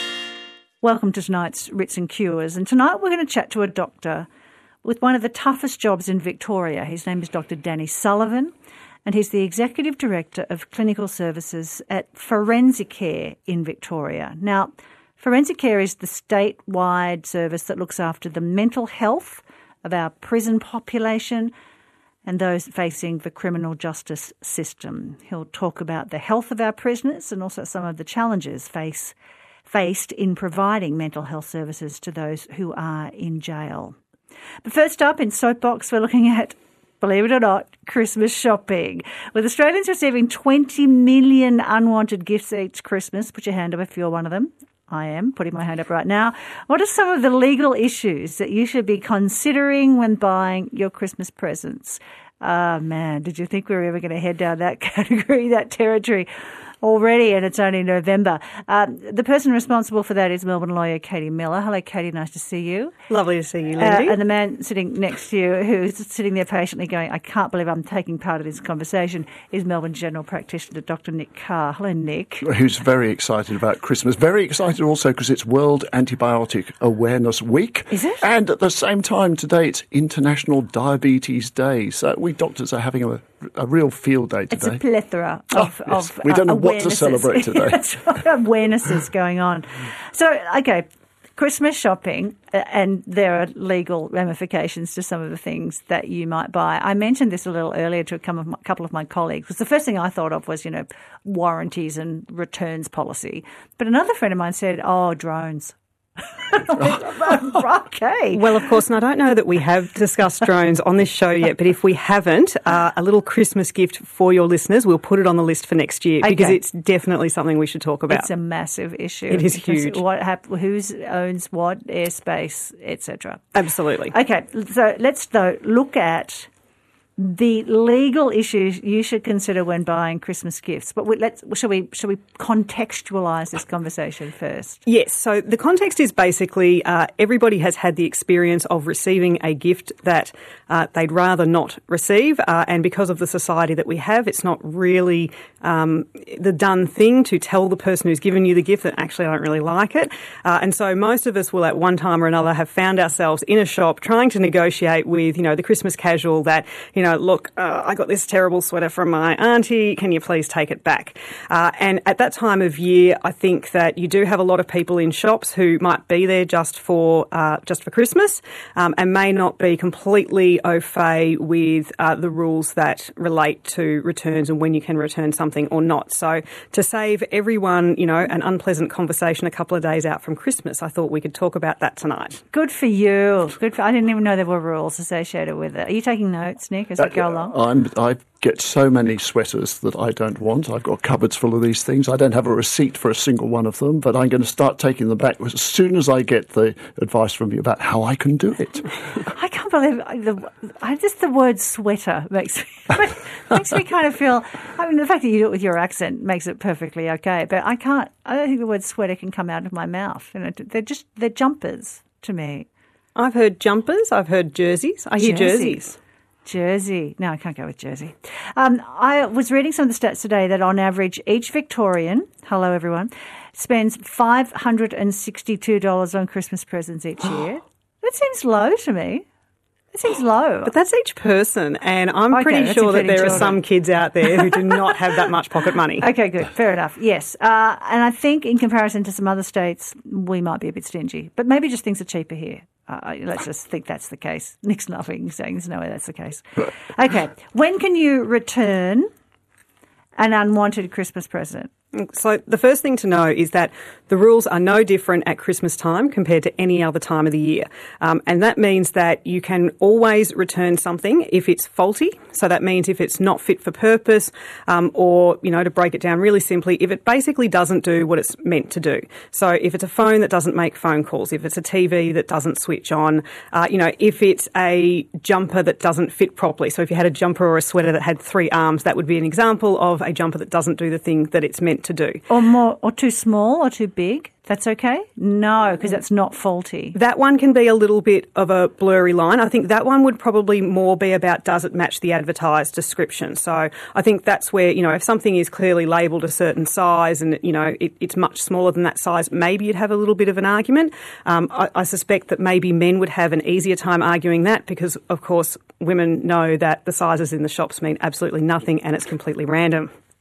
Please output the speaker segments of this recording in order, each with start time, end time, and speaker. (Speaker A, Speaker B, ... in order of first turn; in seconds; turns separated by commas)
Speaker A: 0.8-4.3, Speaker A: 4.8-8.5, Speaker A: 9.1-21.5, Speaker A: 22.2-29.1, Speaker A: 29.7-34.0, Speaker A: 34.6-56.3, Speaker A: 56.8-62.9, Speaker B: 63.1-64.2, Speaker A: 63.8-72.5, Speaker C: 72.4-84.8, Speaker A: 77.9-78.2, Speaker A: 84.5-108.4, Speaker C: 85.6-87.8, Speaker B: 108.3-118.3, Speaker A: 116.2-116.6, Speaker A: 118.1-123.4, Speaker B: 119.3-120.0, Speaker B: 123.6-124.1, Speaker A: 124.1-126.5, Speaker A: 127.2-134.8, Speaker B: 134.9-182.4, Speaker A: 182.5-187.6, Speaker C: 187.0-198.9, Speaker A: 199.3-212.7, Speaker B: 213.2-216.0, Speaker A: 215.2-215.8, Speaker A: 216.5-229.3, Speaker A: 229.9-230.7, Speaker B: 230.7-236.1, Speaker A: 232.3-233.6, Speaker A: 236.0-249.1, Speaker A: 250.2-251.7, Speaker B: 251.9-282.2, Speaker A: 282.3-287.0, Speaker B: 286.9-309.9